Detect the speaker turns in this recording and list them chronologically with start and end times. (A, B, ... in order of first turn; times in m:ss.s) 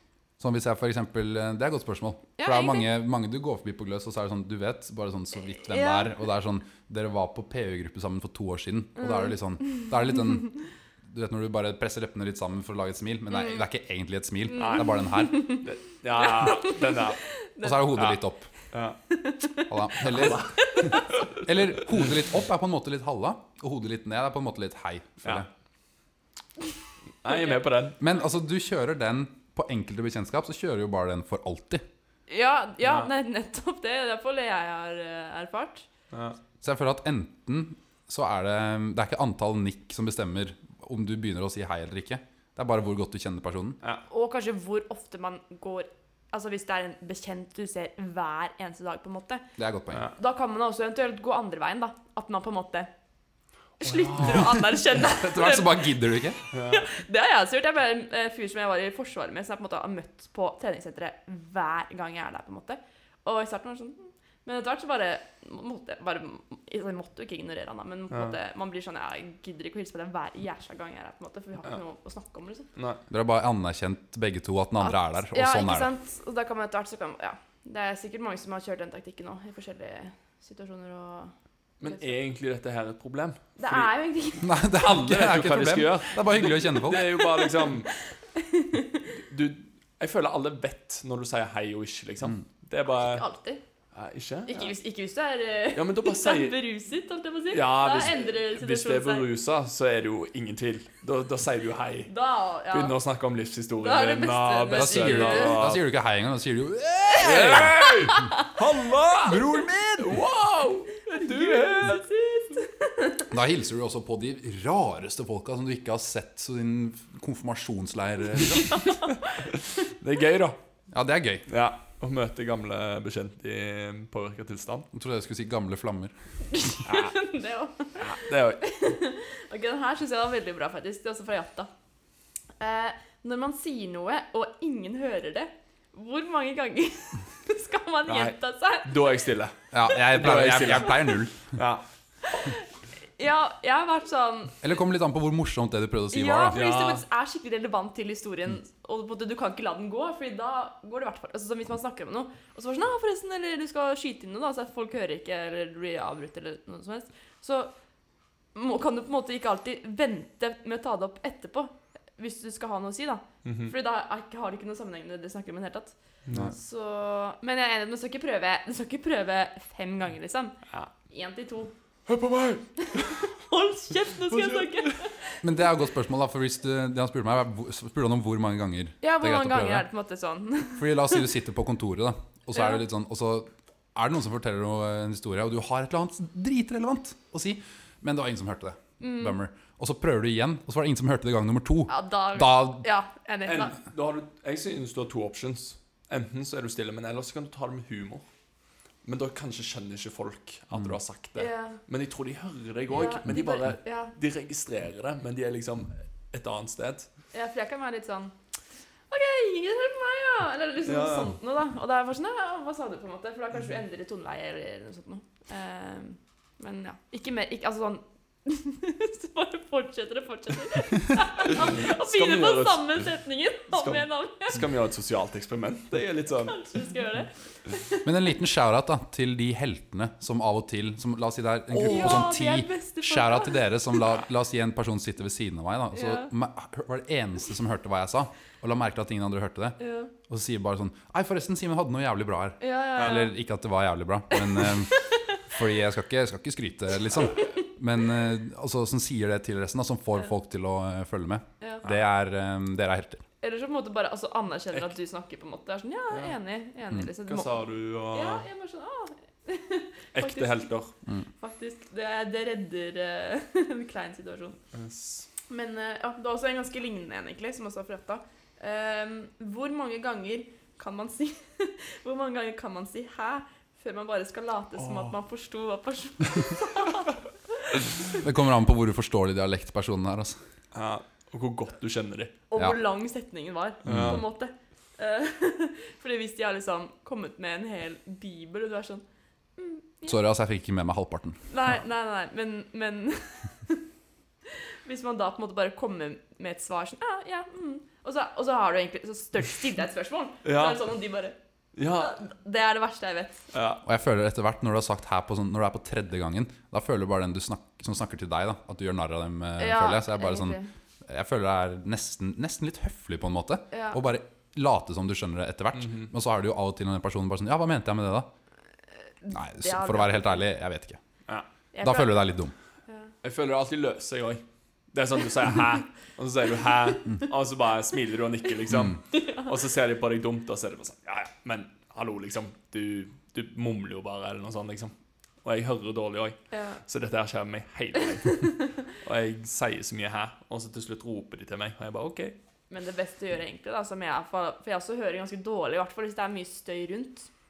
0:00.4-0:15.6 A
0:02.4-0:02.9 B
0:05.6-0:06.1 B
0:14.5-0:15.6 B
0:14.6-0:14.9 C
0:15.5-0:17.3 C
0:16.4-0:18.0 B
0:17.6-0:18.5 A
0:17.9-0:19.0 C
0:19.1-0:21.2 B
0:19.7-0:25.5 A
0:20.0-0:21.2 C
0:27.2-0:28.0 C
0:28.0-0:31.8 A
0:32.3-0:35.9 B
0:32.8-0:33.1 C
0:36.1-0:36.4 C
0:36.6-0:43.8 A
0:44.1-0:49.4 B
0:49.6-0:50.1 A
0:50.1-0:52.9 B
0:53.8-0:55.9 B
0:53.8-0:54.6 C
0:54.3-0:56.4 A
0:56.5-0:56.9 C
0:56.6-1:12.7 B
1:12.8-1:13.0 C
1:13.1-1:15.9 A
1:14.8-1:21.3 B
1:21.8-1:23.9 C
1:21.8-1:22.1 B
1:23.6-1:24.6 B
1:24.4-1:27.3 A
1:24.7-1:27.9 C
1:27.1-1:29.1 B
1:29.2-1:33.2 C
1:32.9-1:33.6 B
1:34.0-1:34.7 C
1:34.5-1:39.3 B
1:35.8-1:36.6 C
1:37.5-1:42.1 C
1:42.1-1:43.0 B
1:42.7-1:45.8 C
1:43.8-1:45.6 B
1:44.8-1:47.9 A
1:47.2-1:49.5 C
1:47.3-1:48.5 B
1:49.2-1:50.2 A
1:50.0-1:52.0 C
1:51.1-1:53.3 B
1:53.3-1:58.9 A
1:58.6-1:59.4 B
1:59.5-2:00.6 C
2:00.9-2:01.5 A
2:01.5-2:04.9 C
2:04.9-2:06.1 A
2:06.6-2:11.7 B
2:06.9-2:07.2 C
2:08.0-2:08.7 C
2:12.6-2:19.2 B
2:18.1-2:21.8 C
2:19.7-2:21.6 A
2:22.2-2:24.6 B
2:24.6-2:26.6 A
2:26.1-2:37.7 B
2:26.5-2:27.0 C
2:38.5-2:51.7 B
2:43.4-2:43.7 C
2:46.3-2:46.5 C
2:52.1-2:53.1 C
2:52.8-2:55.4 B
2:54.3-2:54.9 C
2:55.4-2:59.9 A
2:59.0-3:01.3 B
3:00.8-3:12.8 A
3:02.6-3:02.8 B
3:09.0-3:09.4 B
3:11.9-3:13.8 B
3:13.5-3:18.2 C
3:19.0-3:27.1 C
3:21.4-3:21.8 B
3:22.9-3:24.1 B
3:27.3-3:28.4 B
3:29.1-3:44.6 B
3:30.9-3:31.3 C
3:41.6-3:42.9 C
3:43.7-3:46.6 C
3:46.4-3:48.1 B
3:48.0-4:13.2 A
3:51.7-3:54.0 B
3:55.9-3:56.3 B
3:59.8-4:00.1 B
4:02.6-4:03.3 B
4:04.3-4:05.4 B
4:11.6-4:11.9 B
4:13.4-4:20.7 B
4:17.3-4:18.4 C
4:20.1-4:20.9 C
4:21.4-4:24.6 B
4:24.7-4:25.3 C
4:25.5-4:37.8 B
4:34.8-4:35.1 C
4:38.1-4:40.4 A
4:40.7-4:42.4 C
4:42.5-4:49.0 B
4:43.8-4:44.2 C
4:43.9-4:44.2 A
4:49.6-4:50.2 B
4:50.1-4:51.4 A
4:51.5-4:53.8 B
4:54.5-5:01.4 B
5:00.4-5:00.9 C
5:01.8-5:02.2 C
5:01.9-5:03.4 B
5:03.5-5:03.8 C
5:03.8-5:18.3 A
5:09.6-5:10.7 B
5:13.7-5:14.0 B
5:15.8-5:16.1 C
5:19.2-5:20.4 B
5:19.3-5:21.0 A
5:21.7-5:22.3 B
5:21.8-5:22.5 A
5:23.2-5:42.4 C
5:29.2-5:29.5 B
5:36.5-5:36.8 B
5:38.3-5:38.7 B
5:42.7-5:47.3 B